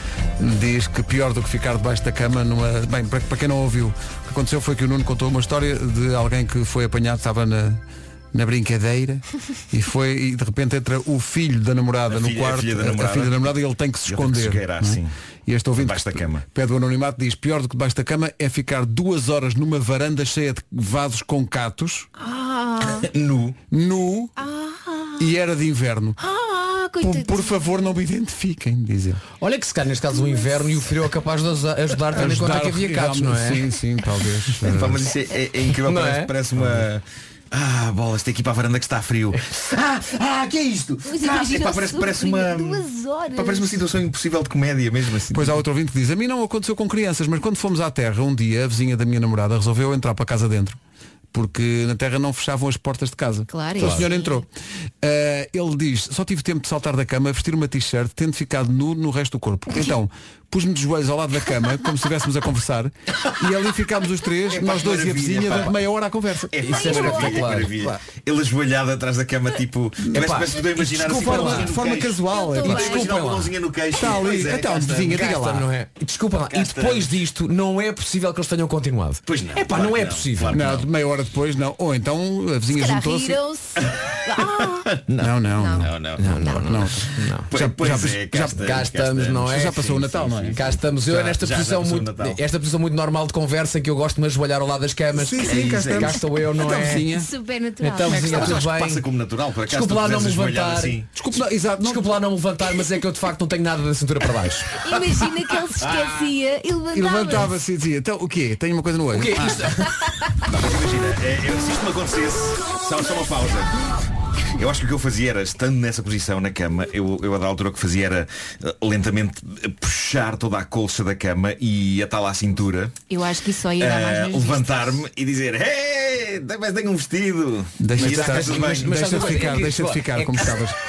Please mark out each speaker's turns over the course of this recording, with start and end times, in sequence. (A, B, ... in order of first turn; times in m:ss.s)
0:00.4-0:22.1 A
0:12.1-0:13.5 B
0:14.0-0:15.1 B
0:15.8-0:16.4 B
0:22.2-0:23.1 C
0:23.0-0:23.6 B
0:23.7-0:24.3 A
0:24.4-0:25.3 C
0:25.2-0:26.2 A
0:26.2-0:28.0 C
0:27.0-0:29.2 A
0:29.4-0:33.7 D
0:32.2-0:35.0 A
0:34.6-0:45.6 B
0:35.7-0:36.3 D
0:41.1-0:43.8 C
0:45.3-0:50.8 A
0:51.3-0:54.5 A
0:53.5-0:54.4 C
0:55.0-1:06.6 A
1:04.5-1:05.8 B
1:06.5-1:15.2 B
1:06.6-1:07.9 D
1:06.7-1:07.4 C
1:10.1-1:11.8 D
1:11.2-1:13.3 A
1:12.2-1:13.1 C
1:12.6-1:13.5 D
1:13.9-1:15.7 A
1:15.0-1:20.8 D
1:16.5-1:17.2 B
1:19.3-1:20.9 B
1:20.5-1:23.4 A
1:22.7-1:24.9 C
1:25.1-1:26.7 B
1:25.2-1:26.0 A
1:25.5-1:26.6 C
1:26.2-1:27.5 D
1:26.6-1:28.6 A
1:27.4-1:32.4 B
1:28.4-1:37.1 D
1:29.5-1:31.4 A
1:35.1-1:37.3 A
1:35.4-1:36.2 B
1:37.0-1:38.3 C
1:37.9-1:39.0 D
1:38.1-1:41.1 B
1:39.7-1:41.0 D
1:41.1-1:42.1 A
1:41.8-1:44.8 D
1:44.8-1:47.5 C
1:45.8-1:46.2 B
1:46.9-1:49.7 A
1:49.1-1:50.0 D
1:50.5-1:53.8 B
1:54.6-2:02.9 B
2:03.1-2:05.0 C
2:03.8-2:09.4 B
2:07.8-2:10.8 A
2:08.0-2:10.5 D